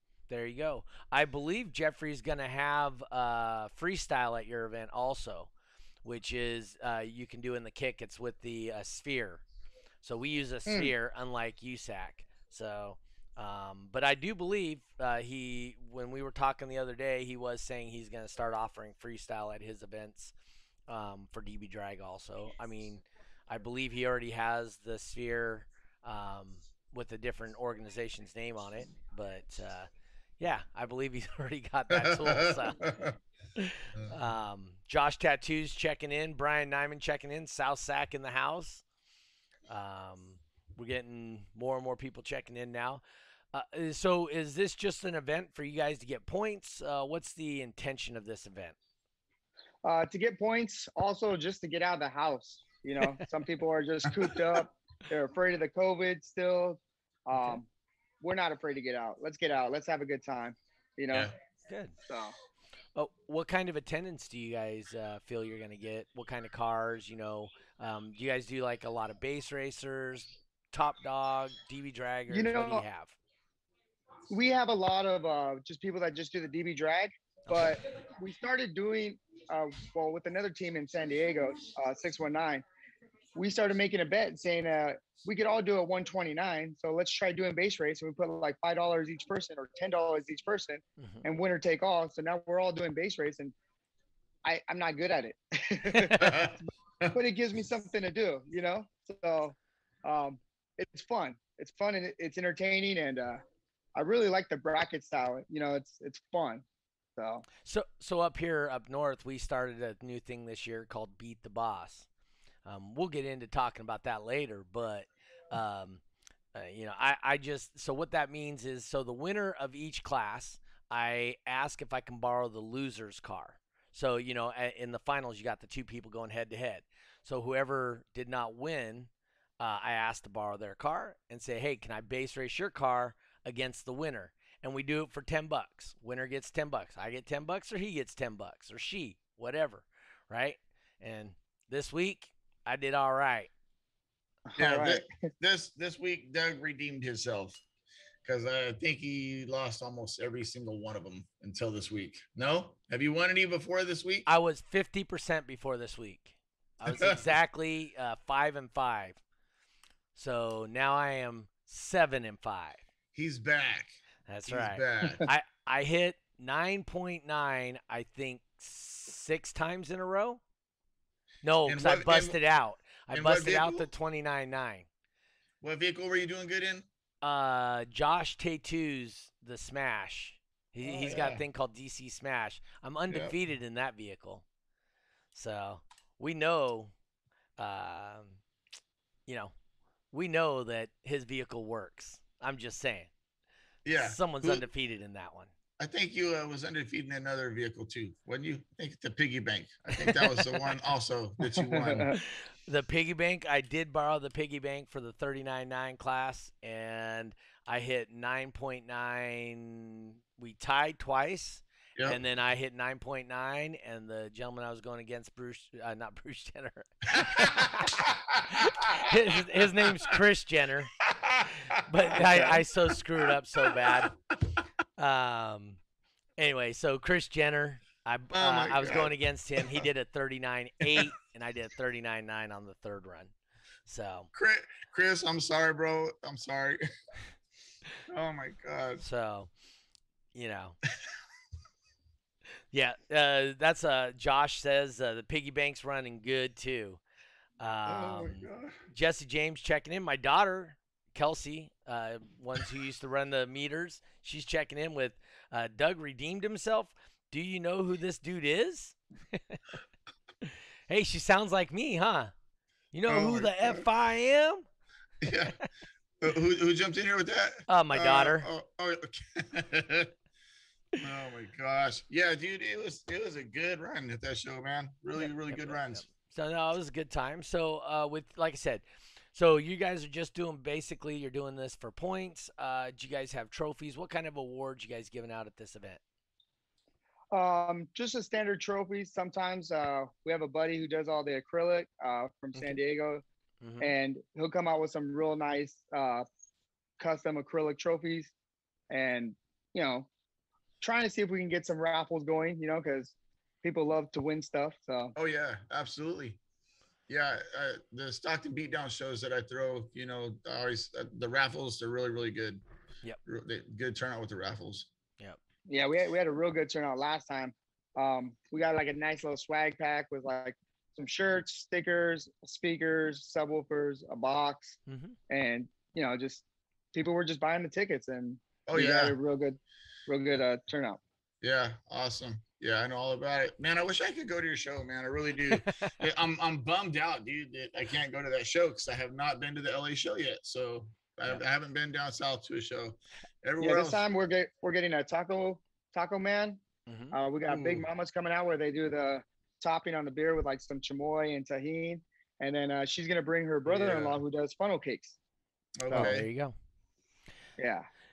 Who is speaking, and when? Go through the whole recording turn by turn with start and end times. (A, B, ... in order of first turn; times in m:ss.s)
0:00.3-0:05.5 A
0:06.0-0:09.4 A
0:10.0-0:20.3 A
0:20.9-0:32.9 A
0:31.9-0:33.2 B
0:33.6-0:38.8 A
0:39.7-0:43.0 A
0:43.5-0:48.8 A
0:49.8-0:57.7 C
0:58.2-1:01.3 C
1:01.7-1:02.0 A
1:02.1-1:02.3 C
1:02.9-1:13.2 A
1:12.3-1:12.8 C
1:14.3-1:22.6 C
1:17.5-1:17.8 A
1:23.4-1:33.5 C
1:31.0-1:31.2 A
1:34.4-1:36.4 C
1:35.9-1:36.1 A
1:36.2-1:37.1 B
1:37.1-1:43.4 C
1:43.9-1:46.6 C
1:47.2-1:47.4 C
1:47.6-1:52.1 A
1:52.6-1:56.0 A
1:56.5-2:23.5 A
2:24.5-2:25.1 C
2:24.6-2:27.6 B
2:28.2-2:34.3 B
2:34.2-2:39.2 A
2:36.8-2:37.2 B
2:40.1-2:42.8 A
2:43.1-2:45.3 B
2:44.2-2:50.4 A
2:51.4-2:54.9 A
2:51.6-2:52.4 B
2:53.1-2:53.9 B
2:55.6-2:56.8 B
2:57.2-3:04.4 A
3:00.8-3:01.4 B
3:03.1-3:03.3 B
3:05.3-3:06.9 A
3:07.6-3:08.4 A
3:09.3-3:09.5 A
3:10.1-3:13.1 A
3:13.8-3:14.6 B
3:13.9-3:15.5 A
3:15.8-3:22.1 B
3:20.0-3:20.7 A
3:21.6-3:22.2 C
3:22.1-3:40.9 A
3:37.1-3:39.2 B
3:39.8-3:40.1 B
3:41.0-3:44.1 B
3:41.7-3:44.1 A
3:45.0-3:45.8 A
3:46.4-3:53.3 A
3:48.3-3:49.8 B
3:53.9-3:54.3 A
3:54.3-3:56.8 B
3:58.1-3:59.0 B
3:59.0-3:59.5 A
4:00.3-4:00.8 A
4:02.7-4:07.0 A
4:07.6-4:19.6 A
4:07.8-4:08.8 B
4:20.4-4:22.3 A
4:22.9-4:24.6 A
4:23.1-4:23.8 B
4:25.2-4:25.6 B
4:26.2-4:30.1 B
4:27.7-4:28.5 A
4:31.0-4:36.0 B
4:35.2-4:46.0 A
4:47.3-4:53.2 C
4:53.6-4:53.9 A
4:53.8-4:56.2 C
4:57.0-4:58.3 C
4:58.9-5:00.1 C
5:00.8-5:05.1 C
5:05.1-5:06.4 B
5:07.1-5:12.6 B
5:13.2-5:14.9 B
5:15.7-5:24.8 C
5:24.9-5:25.2 A
5:25.3-5:26.4 C
5:26.9-5:31.0 C
5:28.6-5:29.2 B
5:31.4-5:44.0 B
5:35.5-5:36.0 A
5:43.6-5:46.6 C
5:46.9-5:47.1 A
5:47.1-5:55.2 C
5:47.5-5:47.8 B
5:53.6-5:54.2 B
5:55.8-5:56.3 B
5:55.9-5:56.5 A
5:57.6-5:57.8 C